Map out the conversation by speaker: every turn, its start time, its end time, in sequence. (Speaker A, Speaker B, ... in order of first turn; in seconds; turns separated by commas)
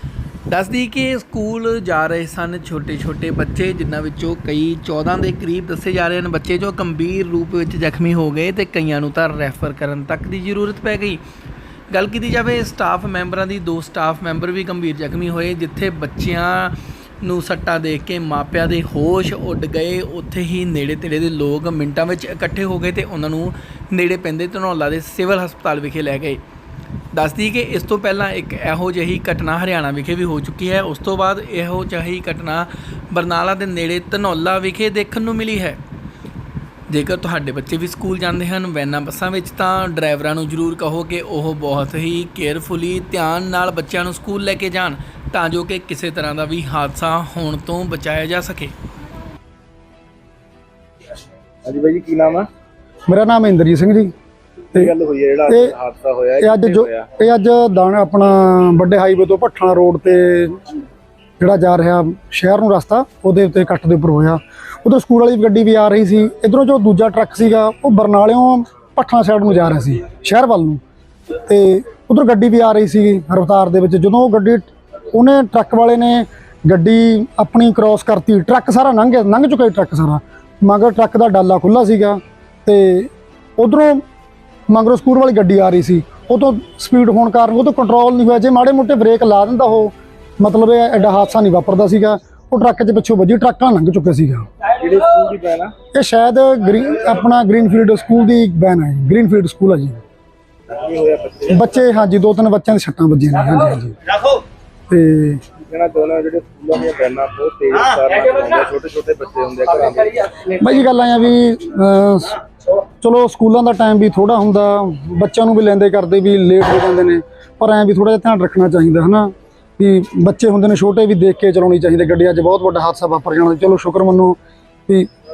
Speaker A: 0.5-11.2, Speaker A: 11.9-26.4, Speaker A: 27.1-35.8, Speaker A: 36.9-48.7, Speaker B: 51.6-52.5, Speaker C: 53.1-54.1, Speaker B: 54.7-57.1, Speaker C: 55.5-55.7, Speaker C: 56.4-60.6, Speaker C: 61.4-70.8, Speaker C: 71.4-84.0, Speaker C: 84.7-94.5, Speaker B: 94.8-95.7, Speaker C: 95.9-100.0, Speaker B: 100.7-101.7, Speaker C: 101.5-104.0, Speaker C: 104.9-105.4, Speaker B: 105.7-110.3, Speaker C: 110.5-112.4, Speaker C: 113.0-124.3